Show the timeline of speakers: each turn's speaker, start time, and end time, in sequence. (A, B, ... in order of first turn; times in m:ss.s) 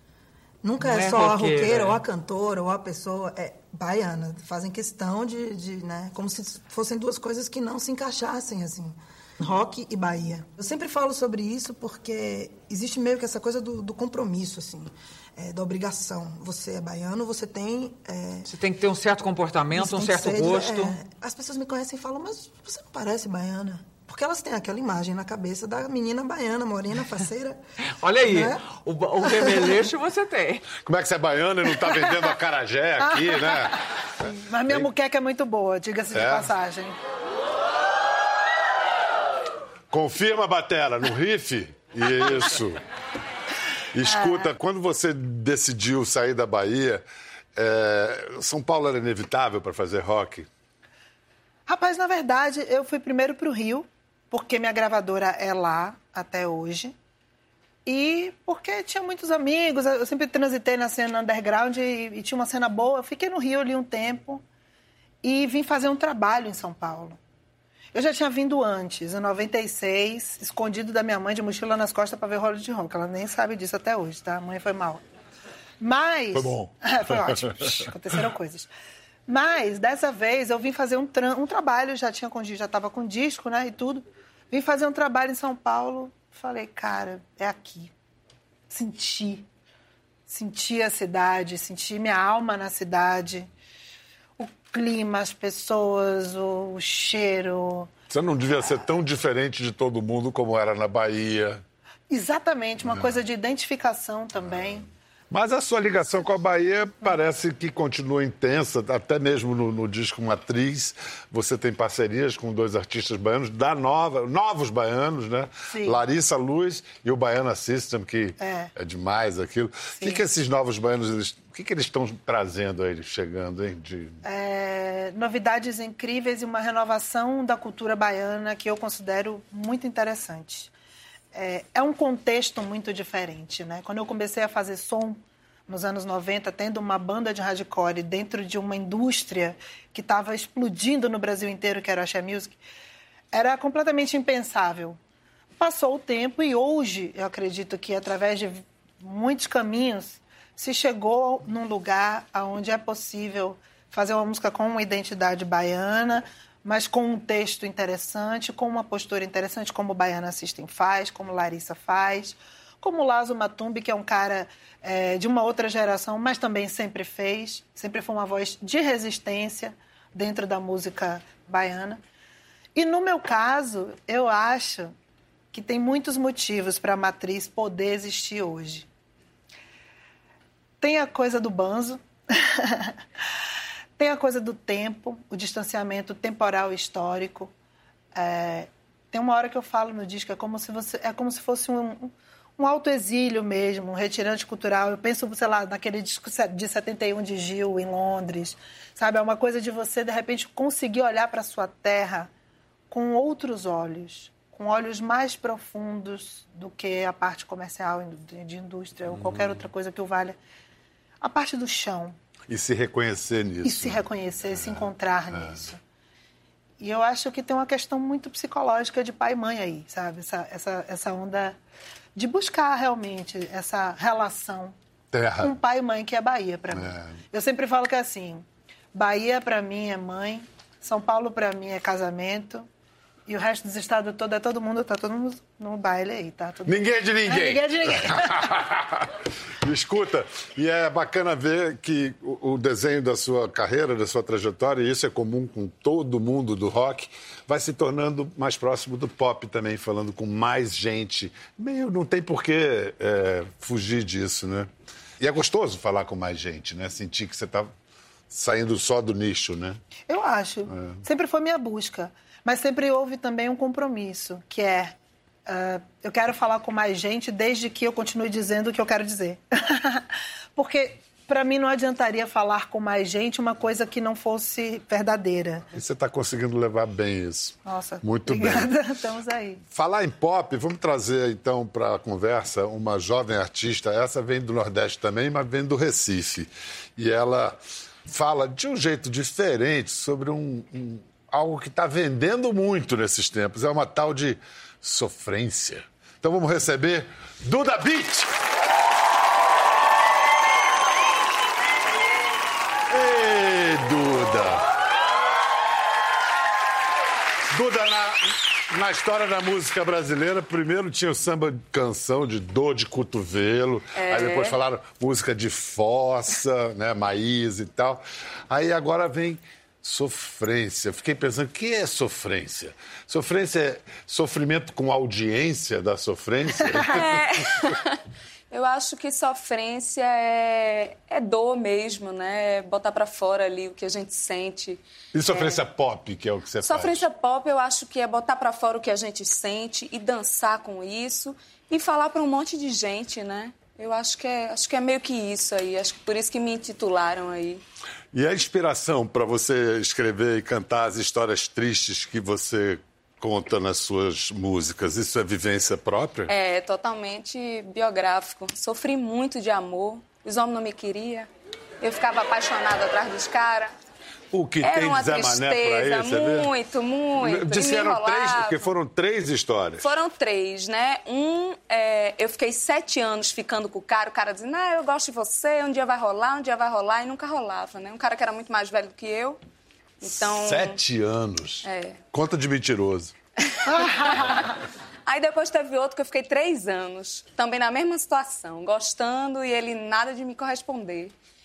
0:00.6-0:18.5 A
0:00.8-0:02.0 B
0:18.5-0:21.0 B
0:19.7-0:27.6 A
0:28.0-0:30.7 B
0:28.2-0:28.6 A
0:29.3-0:29.7 A
0:30.8-0:33.8 C
0:31.8-0:32.3 A
0:33.0-0:36.9 A
0:36.1-0:36.5 C
0:39.9-0:42.8 C
0:43.9-0:47.0 C
0:44.1-0:44.5 A
0:47.6-0:50.5 C
0:51.7-0:56.9 A
0:57.8-1:04.4 A
1:05.2-1:07.2 A
1:07.9-1:15.0 A
1:15.8-1:18.7 A
1:16.3-1:17.9 C
1:19.3-1:27.9 A
1:28.7-1:29.5 A
1:30.3-1:33.5 A
1:34.4-1:37.9 A
1:38.1-1:41.6 C
1:42.1-1:44.9 A
1:45.3-2:04.2 C
1:55.7-1:56.0 A
1:58.4-1:58.7 A
1:59.9-2:00.2 A
2:04.2-2:10.7 A
2:11.3-2:22.6 A
2:23.3-2:25.0 A
2:25.6-2:52.0 A
2:52.7-2:54.9 A
2:55.5-2:58.9 A
3:00.8-3:03.0 A
3:04.0-3:07.5 A
3:08.1-3:22.3 A
3:22.9-3:30.4 A
3:31.2-3:32.2 A
3:32.5-3:34.0 C
3:33.6-3:35.8 A
3:36.8-3:41.6 A
3:42.1-3:44.7 A
3:45.1-3:45.5 C
3:45.4-3:52.7 A
3:46.7-3:47.1 C
3:53.2-3:58.6 A
3:56.6-4:14.7 C
4:15.2-4:17.7 C
4:18.3-4:19.8 C
4:20.1-4:35.6 A
4:20.7-4:21.0 C
4:35.7-4:38.7 C
4:37.6-4:39.6 A
4:39.7-4:58.3 C
5:02.9-5:04.7 C
5:07.5-5:27.4 C
5:14.0-5:14.6 D
5:26.8-5:35.6 D
5:35.1-5:37.1 C
5:36.6-5:47.6 D
5:48.1-5:56.3 C
5:56.3-6:01.3 D
6:01.8-6:03.7 D
6:04.3-6:06.5 C
6:04.6-6:08.7 D
6:07.2-6:09.8 C
6:09.8-6:19.4 D
6:20.0-6:20.8 D
6:20.2-6:23.1 C
6:21.6-6:22.0 D
6:23.4-6:31.1 D
6:23.6-6:24.4 A